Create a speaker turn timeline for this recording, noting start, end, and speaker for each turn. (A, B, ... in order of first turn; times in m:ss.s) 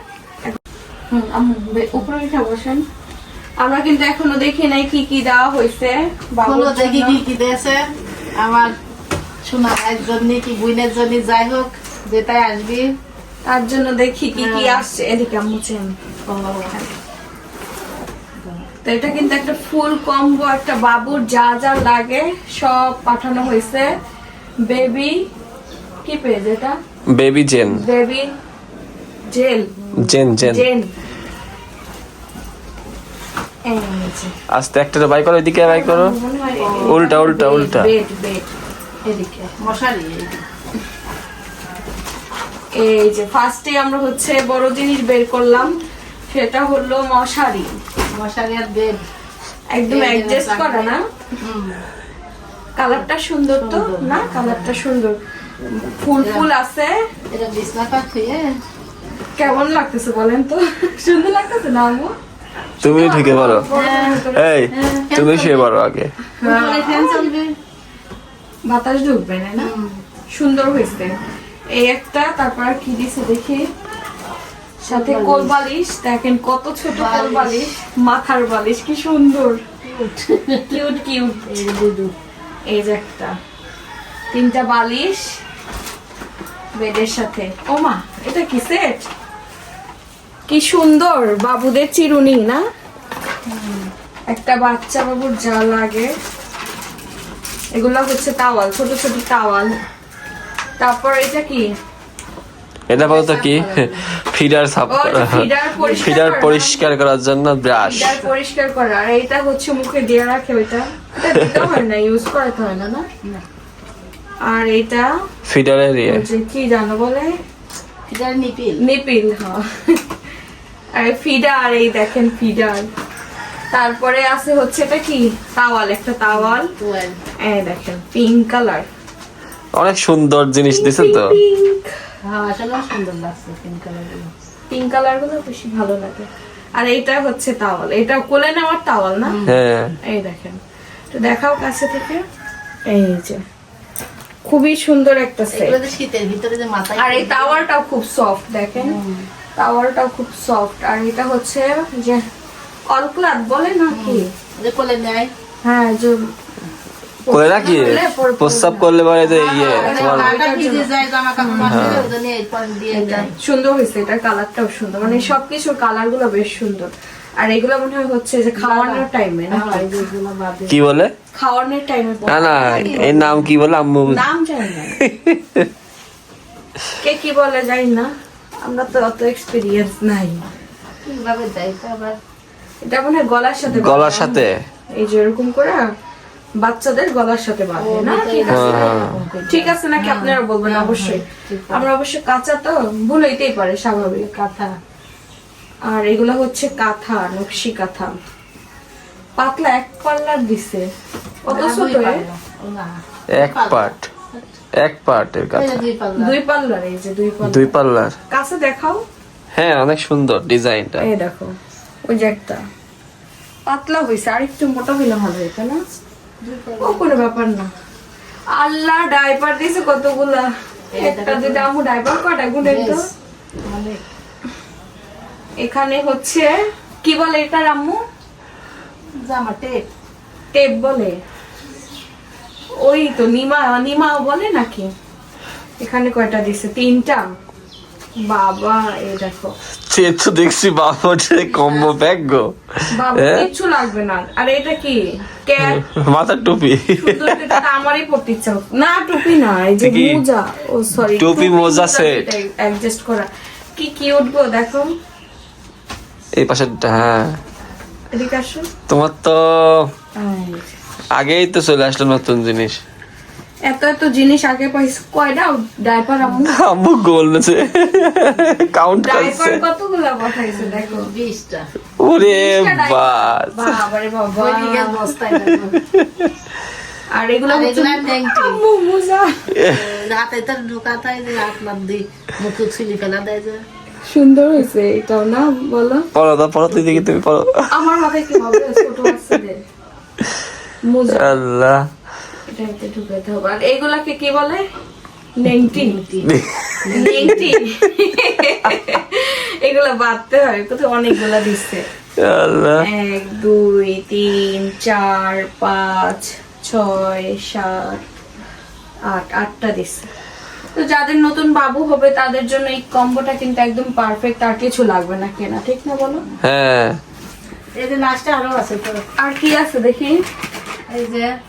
0:01.1-0:02.8 A
0:03.6-0:07.2 A
0:06.4-0:07.8 B
0:08.4-0:08.7 B
0:09.4-0:12.9 B
0:13.4-0:15.9 A
0:14.4-0:14.8 B
0:16.3-0:16.8 B
0:18.8-0:23.9 A
0:24.6-0:25.1 A
0:26.0-0:26.8 A
0:27.1-0:27.8 C
0:27.7-0:28.3 A
0:29.3-0:29.7 A
0:30.0-0:30.6 C
0:30.4-0:30.9 A
0:33.7-0:34.3 A
0:34.5-0:36.1 C
0:35.6-0:38.5 A
0:36.6-0:37.0 B
0:36.9-0:37.9 C
0:39.1-0:40.4 B
0:42.8-0:45.7 A
0:46.3-0:47.7 A
0:48.1-0:49.0 B
0:49.7-0:51.0 A
0:49.9-0:51.8 B
0:52.8-0:56.9 A
0:53.6-0:54.8 B
0:56.2-0:56.5 B
0:57.3-0:58.6 B
0:59.4-1:02.1 A
1:02.8-1:04.5 A
1:02.8-1:03.7 C
1:03.7-1:05.6 B
1:04.3-1:06.1 C
1:06.4-1:07.3 A
1:06.4-1:07.5 B
1:08.7-1:09.7 A
1:09.6-1:10.0 B
1:10.3-1:11.1 A
1:11.7-1:13.6 A
1:14.8-1:15.6 B
1:14.8-1:19.6 A
1:16.8-1:17.7 B
1:19.8-1:20.8 B
1:20.7-1:21.6 A
1:21.5-1:22.2 B
1:22.7-1:23.3 A
1:24.3-1:25.3 A
1:26.8-1:29.1 A
1:30.5-1:32.6 A
1:33.5-1:33.9 B
1:34.3-1:36.1 A
1:37.8-1:39.7 A
1:40.8-1:41.7 A
1:42.9-1:45.5 C
1:42.9-1:44.1 B
1:44.9-1:46.8 A
1:45.8-1:46.0 B
1:46.0-1:48.1 C
1:47.8-1:48.3 B
1:47.8-1:53.0 A
1:51.3-1:51.8 C
1:54.5-1:55.1 A
1:55.4-1:56.2 C
1:56.0-1:57.3 A
1:58.1-1:58.8 B
1:58.8-2:00.0 A
2:01.0-2:02.8 A
2:03.7-2:06.7 A
2:06.3-2:07.2 B
2:07.4-2:08.9 A
2:09.8-2:11.3 C
2:10.7-2:11.8 A
2:12.2-2:14.3 B
2:14.7-2:19.4 A
2:19.2-2:19.6 B
2:19.4-2:19.9 C
2:20.1-2:20.6 A
2:21.1-2:22.2 A
2:22.9-2:23.4 A
2:24.4-2:25.8 A
2:25.5-2:27.6 B
2:27.0-2:29.0 A
2:28.8-2:29.3 B
2:29.6-2:32.2 A
2:32.9-2:34.3 A
2:33.9-2:35.3 B
2:35.6-2:36.2 A
2:37.2-2:38.9 A
2:37.3-2:40.4 C
2:37.5-2:38.0 B
2:39.2-2:43.3 B
2:39.7-2:42.0 A
2:41.6-2:42.1 C
2:42.9-2:50.1 A
2:45.0-2:45.4 B
2:48.6-2:50.8 B
2:50.7-2:51.1 C
2:51.3-2:53.4 A
2:52.3-2:54.2 C
2:52.6-2:53.4 B
2:54.0-2:55.0 A
2:55.0-2:55.7 C
2:57.0-2:58.1 A
2:58.6-3:00.4 A
3:01.0-3:02.2 B
3:02.8-3:04.4 A
3:03.7-3:04.6 C
3:05.0-3:05.8 A
3:06.6-3:14.3 A
3:07.8-3:11.9 B
3:08.5-3:09.2 C
3:14.0-3:14.8 B
3:15.9-3:18.2 A
3:19.4-3:20.9 A
3:21.4-3:22.3 A
3:21.5-3:24.6 B
3:23.3-3:24.1 C
3:24.8-3:25.8 C
3:25.5-3:26.4 B
3:26.2-3:27.7 A
3:27.4-3:28.2 C
3:28.3-3:29.0 A
3:29.5-3:31.1 C
3:31.0-3:31.5 A
3:32.0-3:32.6 A
3:33.7-3:35.8 A
3:36.4-3:37.2 B
3:36.8-3:37.7 A
3:38.5-3:43.0 A
3:40.9-3:41.7 B
3:42.6-3:43.0 B
3:43.6-3:44.0 B
3:45.6-3:46.5 A
3:47.0-3:48.0 A
3:49.2-3:49.9 B
3:50.5-3:51.1 A
3:52.8-3:54.9 A
3:55.8-3:57.2 A
3:58.3-3:59.5 A
3:59.9-4:03.5 C
4:01.6-4:01.9 B
4:02.9-4:05.8 A
4:05.6-4:07.6 C
4:07.0-4:14.9 A
4:09.8-4:10.2 C
4:11.2-4:12.3 C
4:16.4-4:17.4 C
4:18.1-4:18.7 A
4:18.9-4:19.9 C
4:20.2-4:20.7 A
4:21.2-4:22.8 C
4:23.7-4:26.6 A
4:26.5-4:29.6 C
4:29.0-4:31.1 A
4:30.5-4:31.7 B
4:32.0-4:33.8 C
4:32.1-4:35.1 A
4:34.3-4:35.8 B
4:35.9-4:36.3 C
4:37.1-4:39.4 A
4:37.5-4:38.6 B
4:39.5-4:39.8 C
4:39.6-4:43.6 B
4:44.0-4:46.1 A
4:46.1-4:49.3 C
4:47.7-4:49.6 A
4:50.8-4:51.4 A
4:51.1-4:51.8 C
4:52.5-4:54.6 A
4:55.4-4:56.0 A
4:55.7-4:56.3 B
4:56.2-4:57.5 C
4:56.8-4:57.5 B
4:56.9-5:01.8 A
4:58.6-4:58.9 C
5:02.2-5:02.8 C
5:02.8-5:08.0 A
5:09.1-5:10.1 A
5:10.7-5:16.2 A
5:16.4-5:17.0 C
5:17.8-5:19.0 B
5:19.2-5:20.2 A
5:20.9-5:21.3 B